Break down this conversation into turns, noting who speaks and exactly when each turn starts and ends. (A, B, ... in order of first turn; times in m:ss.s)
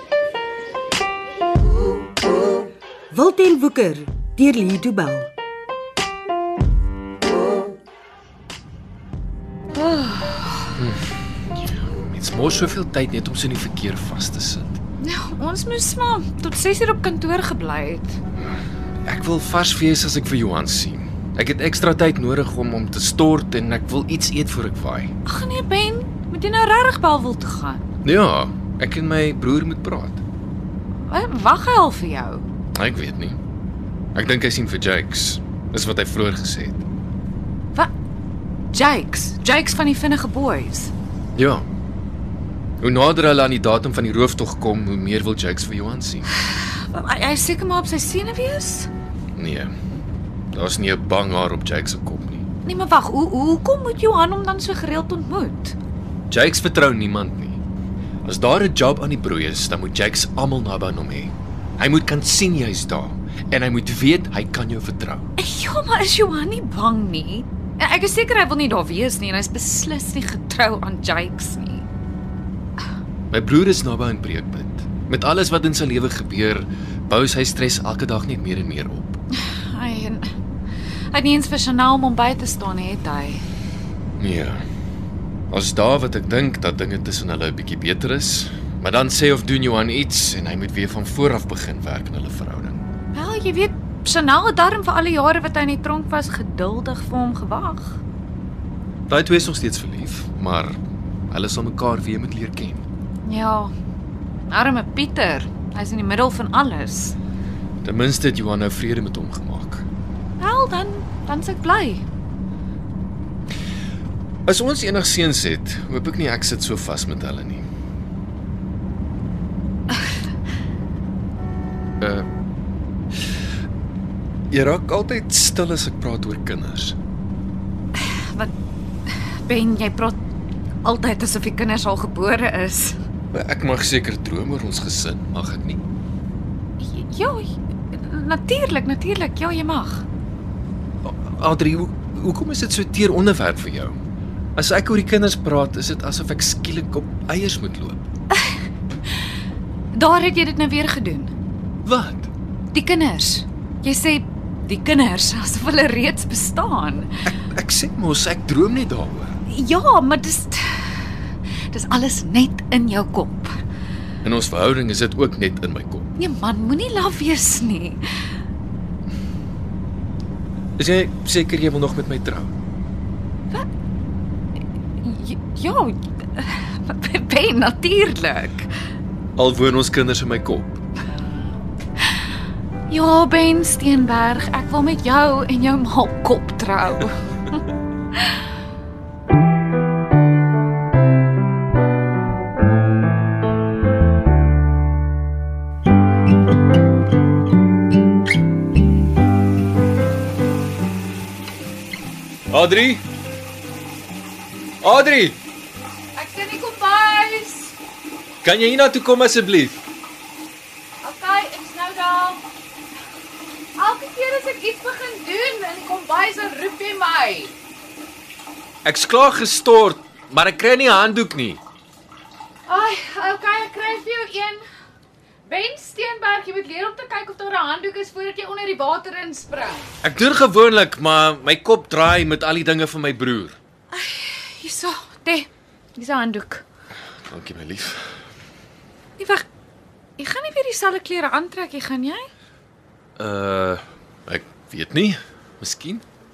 0:03.1-0:05.3 A
0:09.7-0:10.7 B
0:10.8-0:14.8 C
0:15.0-0:18.2 B
0:19.0-0:25.1 C
0:25.2-0:27.8 B
0:28.0-0:30.2 C
0:31.0-0:32.4 B
0:32.7-0:33.4 C
0:34.1-0:36.8 C
0:38.7-0:40.9 B
0:41.3-0:41.6 C
0:42.8-0:46.3 C
0:46.4-0:48.9 B
0:49.4-0:49.7 C
0:50.5-0:52.4 C
0:52.6-0:55.7 B
0:56.3-0:57.6 C
0:58.2-1:05.3 C
1:05.4-1:11.9 B
1:13.3-1:19.2 C
1:19.4-1:20.3 B
1:21.1-1:23.4 B
1:24.2-1:24.6 C
1:25.5-1:32.8 C
1:33.1-1:38.0 B
1:39.1-1:40.8 C
1:41.3-1:42.8 C
1:43.2-1:43.7 B
1:44.5-1:47.2 B
1:47.8-1:49.8 C
1:50.4-1:52.0 B
1:54.4-1:57.6 C
2:02.0-2:02.3 C
2:04.5-2:07.0 C
2:07.9-2:08.5 B
2:09.1-2:10.2 B
2:10.8-2:13.0 B
2:13.3-2:15.8 C
2:16.8-2:20.0 B
2:21.0-2:23.9 C
2:24.6-2:28.0 C
2:29.9-2:31.3 B
2:31.8-2:32.3 C
2:32.7-2:37.2 B
2:37.2-2:39.4 C
2:39.5-2:43.6 B
2:44.2-2:46.1 C
2:46.2-2:48.3 B
2:50.8-2:52.5 C
2:55.0-2:58.7 B
2:59.4-3:00.8 C
3:02.9-3:07.6 B
3:22.5-3:23.0 C
3:24.8-3:25.4 C
3:26.1-3:27.7 B
3:28.4-3:29.8 C
3:31.0-3:32.4 B
3:33.8-3:37.5 B
3:38.8-3:41.6 C
3:42.6-3:44.6 B
3:45.4-3:49.9 B
3:50.0-3:53.6 C
3:53.9-3:56.6 B
3:57.2-3:58.1 C
3:59.2-3:59.5 B
4:00.2-4:02.3 B
4:03.2-4:06.0 C